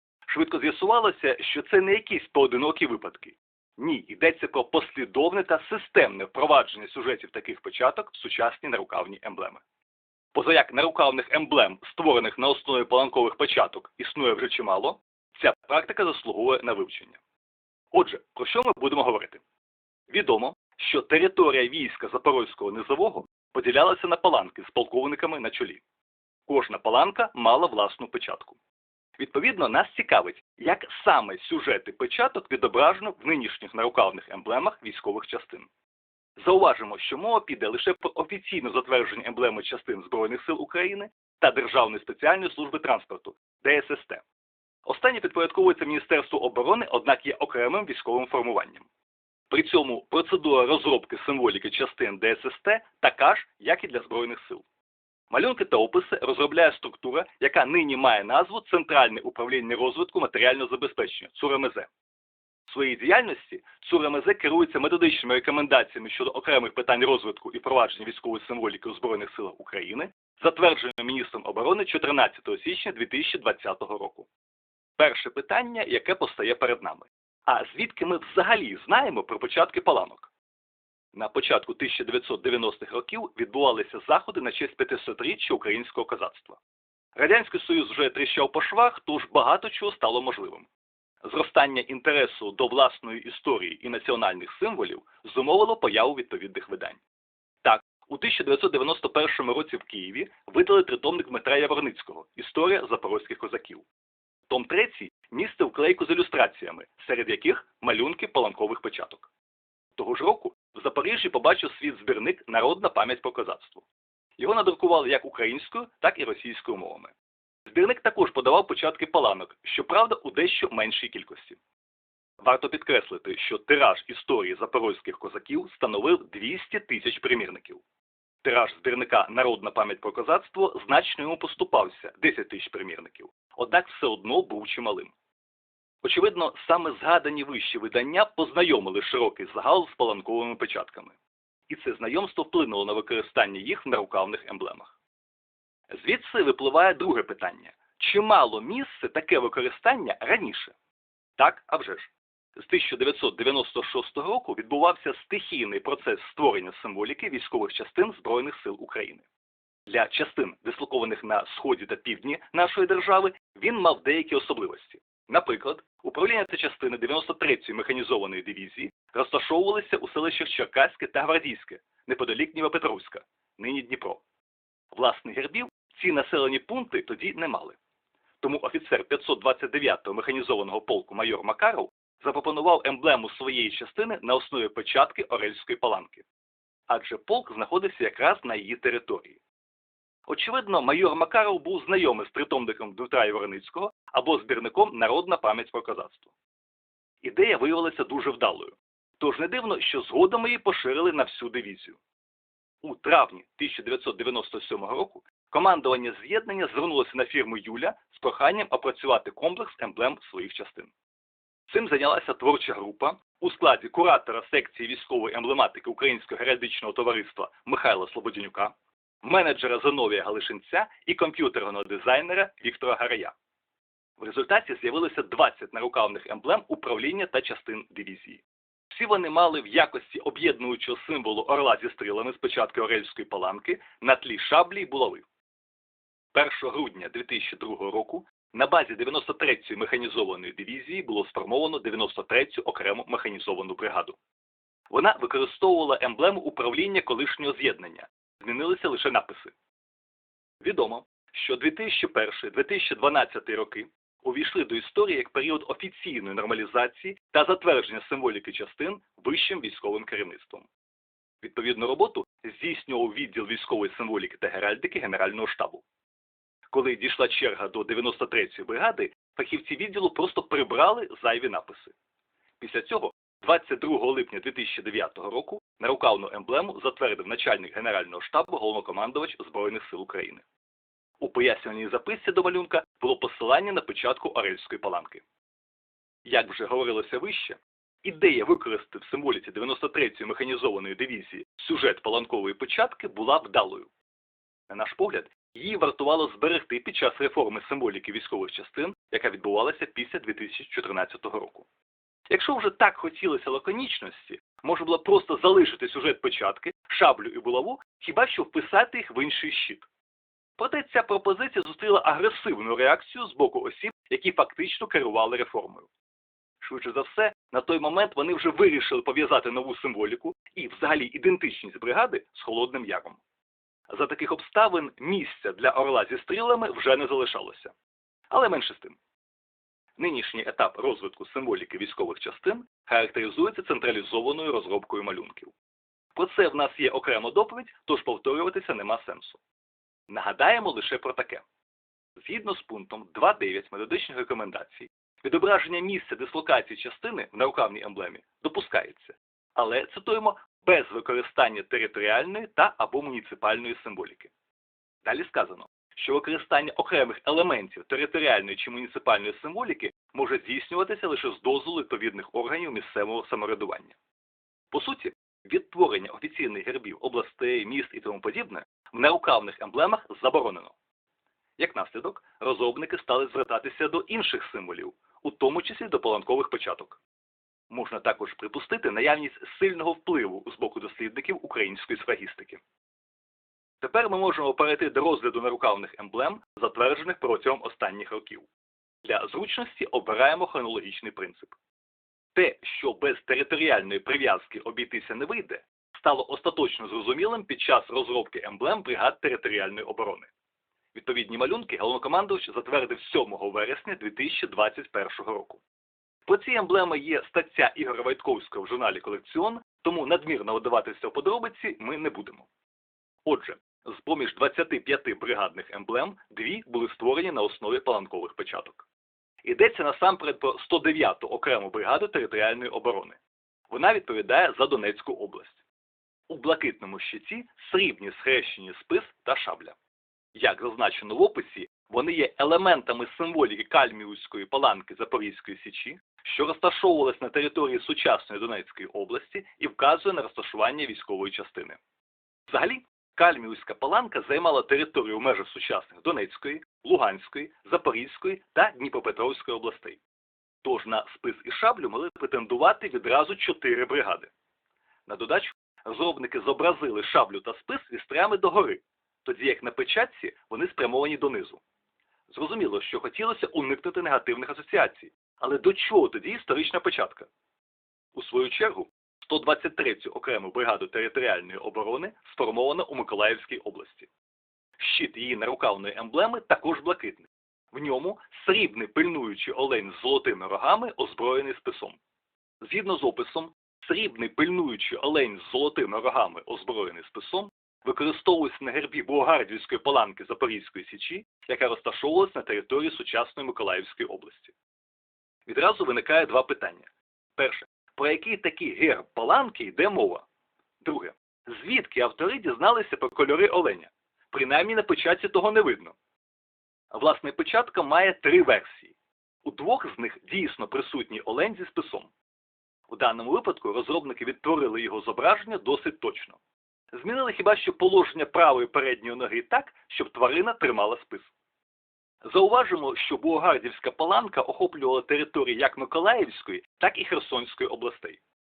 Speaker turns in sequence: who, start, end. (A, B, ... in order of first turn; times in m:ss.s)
0:00.3-0:09.6 A
0:10.3-0:17.2 A
0:17.9-0:19.4 A
0:20.1-0:25.8 A
0:26.5-0:28.6 A
0:29.2-0:35.7 A
0:36.4-0:44.2 A
0:44.8-0:48.9 A
0:49.5-0:54.6 A
0:55.3-1:01.9 A
1:02.6-1:14.3 A
1:15.0-1:20.3 A
1:21.1-1:26.6 A
1:27.2-1:30.7 A
1:31.2-1:37.0 A
1:37.6-1:43.8 A
1:44.5-1:49.3 A
1:50.0-1:53.8 A
1:54.4-1:57.1 A
1:57.7-2:01.6 A
2:02.4-2:07.8 A
2:08.4-2:15.1 A
2:16.0-2:21.2 A
2:21.7-2:24.9 A
2:25.9-2:30.7 A
2:31.4-2:39.2 A
2:39.9-2:54.2 A
2:54.9-2:57.8 A
2:58.4-3:06.2 A
3:06.9-3:09.4 A
3:10.3-3:16.3 A
3:17.2-3:22.0 A
3:22.8-3:30.9 A
3:31.7-3:43.3 A
3:44.2-3:55.2 A
3:56.3-4:04.2 A
4:04.9-4:09.5 A
4:10.6-4:20.7 A
4:21.4-4:25.8 A
4:26.7-4:31.9 A
4:32.6-4:40.4 A
4:41.2-4:45.2 A
4:46.2-4:53.9 A
4:54.7-5:01.6 A
5:02.3-5:09.9 A
5:10.6-5:15.9 A
5:16.6-5:23.2 A
5:23.9-5:27.7 A
5:28.3-5:29.0 A
5:30.0-5:35.5 A
5:36.1-5:39.4 A
5:40.1-5:41.4 A
5:42.2-5:54.3 A
5:55.0-6:04.0 A
6:04.7-6:10.7 A
6:11.6-6:17.0 A
6:17.7-6:22.6 A
6:23.8-6:28.5 A
6:29.0-6:31.5 A
6:32.3-6:40.3 A
6:40.9-6:45.6 A
6:46.2-6:52.5 A
6:53.2-6:58.8 A
6:59.4-7:03.2 A
7:03.7-7:05.6 A
7:06.3-7:09.8 A
7:10.3-7:21.8 A
7:22.5-7:30.0 A
7:30.6-7:34.3 A
7:35.1-7:41.6 A
7:42.3-7:47.3 A
7:48.1-7:54.1 A
7:54.8-8:02.0 A
8:02.6-8:14.5 A
8:15.5-8:20.2 A
8:20.8-8:25.9 A
8:26.9-8:32.1 A
8:32.9-8:36.4 A
8:36.9-8:41.3 A
8:42.2-8:48.2 A